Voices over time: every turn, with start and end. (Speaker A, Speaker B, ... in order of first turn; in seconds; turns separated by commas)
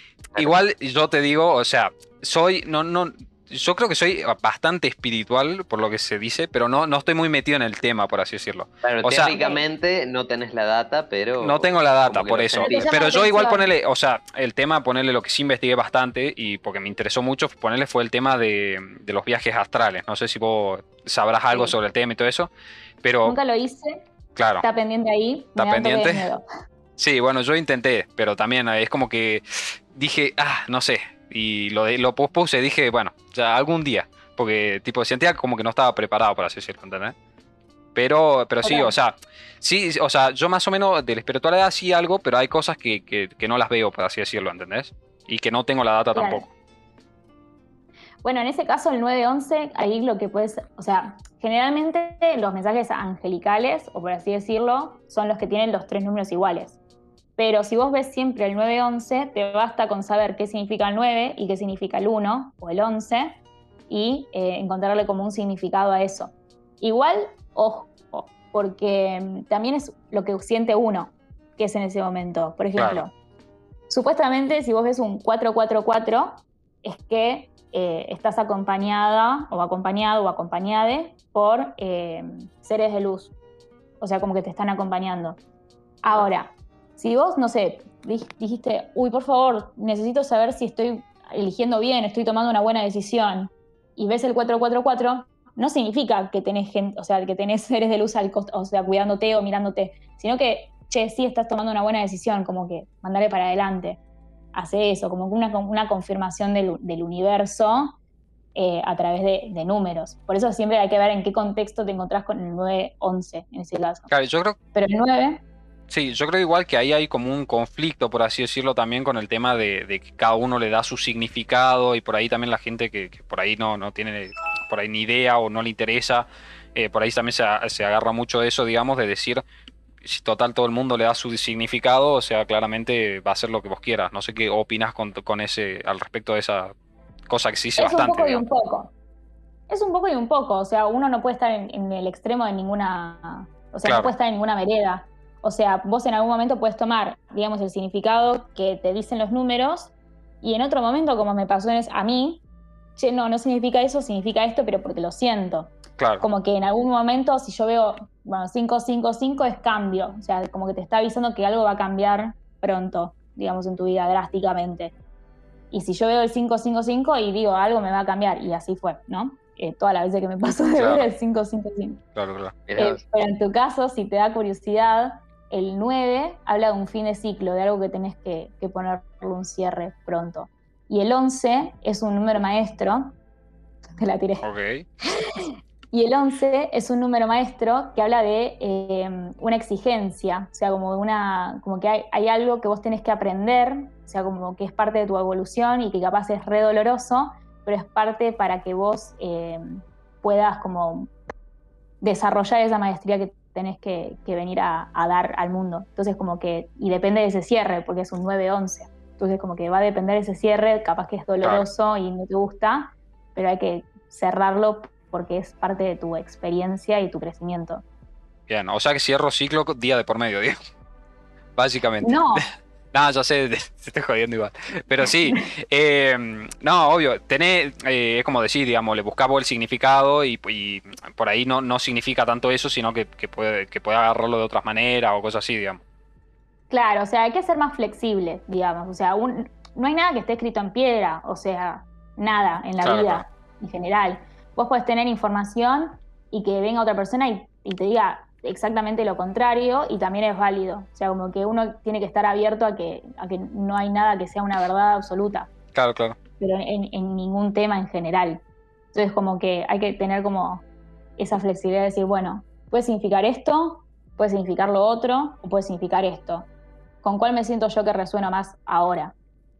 Speaker A: 0.3-9.3, Speaker B: 8.8-12.8, Speaker C: 9.3-9.6, Speaker A: 11.4-22.5, Speaker C: 12.6-13.7, Speaker C: 21.5-21.8, Speaker A: 23.0-23.4, Speaker C: 23.2-24.0, Speaker A: 24.4-24.6, Speaker C: 24.6-26.4, Speaker A: 25.6-26.3, Speaker A: 27.0-37.1, Speaker A: 37.9-46.4, Speaker C: 38.6-38.9, Speaker C: 46.1-46.5, Speaker C: 48.2-56.8, Speaker C: 57.4-63.4, Speaker C: 63.9-73.1, Speaker A: 72.8-73.0, Speaker C: 73.9-83.3, Speaker C: 84.0-85.4, Speaker C: 86.0-104.0, Speaker C: 104.5-108.0, Speaker C: 108.5-114.1, Speaker A: 114.1-114.6, Speaker C: 114.7-115.4, Speaker A: 115.9-129.4, Speaker A: 130.0-136.7, Speaker A: 137.3-138.4, Speaker C: 137.8-138.9, Speaker C: 139.7-152.4, Speaker A: 143.8-144.1, Speaker C: 153.0-164.9, Speaker A: 156.0-156.2, Speaker C: 165.7-172.0, Speaker A: 170.8-171.1, Speaker A: 172.2-172.6, Speaker B: 172.7-173.0, Speaker C: 172.8-183.1, Speaker C: 184.0-184.4, Speaker A: 184.4-184.9, Speaker C: 185.1-201.1, Speaker C: 202.0-217.8, Speaker A: 211.4-211.7, Speaker A: 218.5-220.6, Speaker A: 221.6-235.8, Speaker C: 222.0-222.5, Speaker C: 236.7-255.5, Speaker A: 242.8-243.2, Speaker A: 255.7-256.2, Speaker C: 256.4-258.4, Speaker C: 258.9-260.6, Speaker C: 261.2-266.5, Speaker C: 267.0-269.1